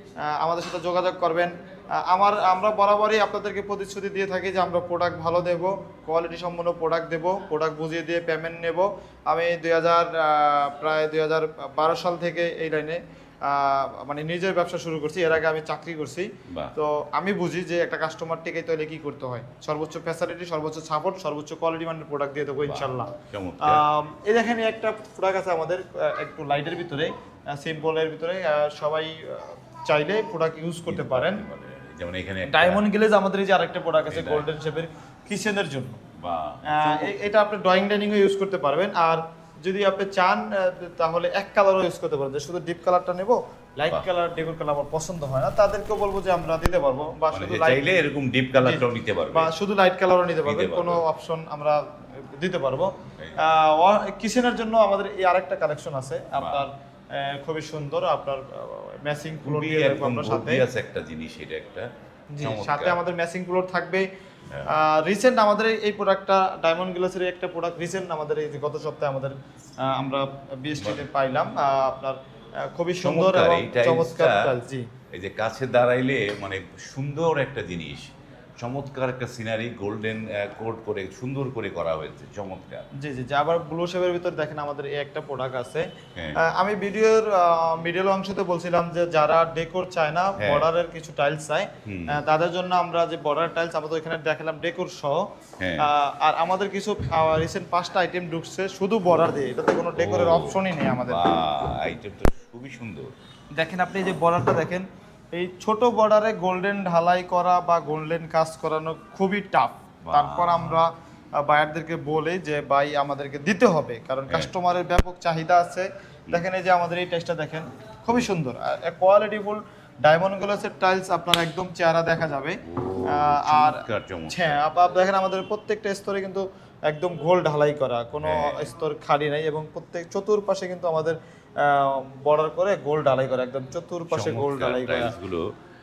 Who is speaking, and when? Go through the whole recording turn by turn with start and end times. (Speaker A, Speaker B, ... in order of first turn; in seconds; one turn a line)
Speaker A: 0.2-31.4
Speaker B: 16.5-16.7
Speaker B: 22.6-23.8
Speaker B: 30.9-32.8
Speaker A: 32.5-36.0
Speaker B: 34.1-34.5
Speaker B: 36.2-37.1
Speaker A: 36.7-48.0
Speaker B: 47.3-49.5
Speaker A: 48.6-60.6
Speaker B: 50.4-51.0
Speaker B: 56.3-56.7
Speaker B: 59.4-61.9
Speaker A: 62.3-64.0
Speaker B: 62.4-63.0
Speaker A: 64.7-74.9
Speaker B: 70.8-71.0
Speaker B: 73.0-74.5
Speaker B: 75.1-82.9
Speaker A: 83.0-85.8
Speaker A: 86.4-95.2
Speaker B: 90.4-90.7
Speaker B: 91.8-92.2
Speaker B: 95.6-95.9
Speaker A: 95.8-101.2
Speaker B: 99.9-103.1
Speaker A: 103.5-135.1
Speaker B: 110.0-110.8
Speaker B: 122.6-124.6
Speaker B: 128.2-128.7
Speaker B: 134.1-135.4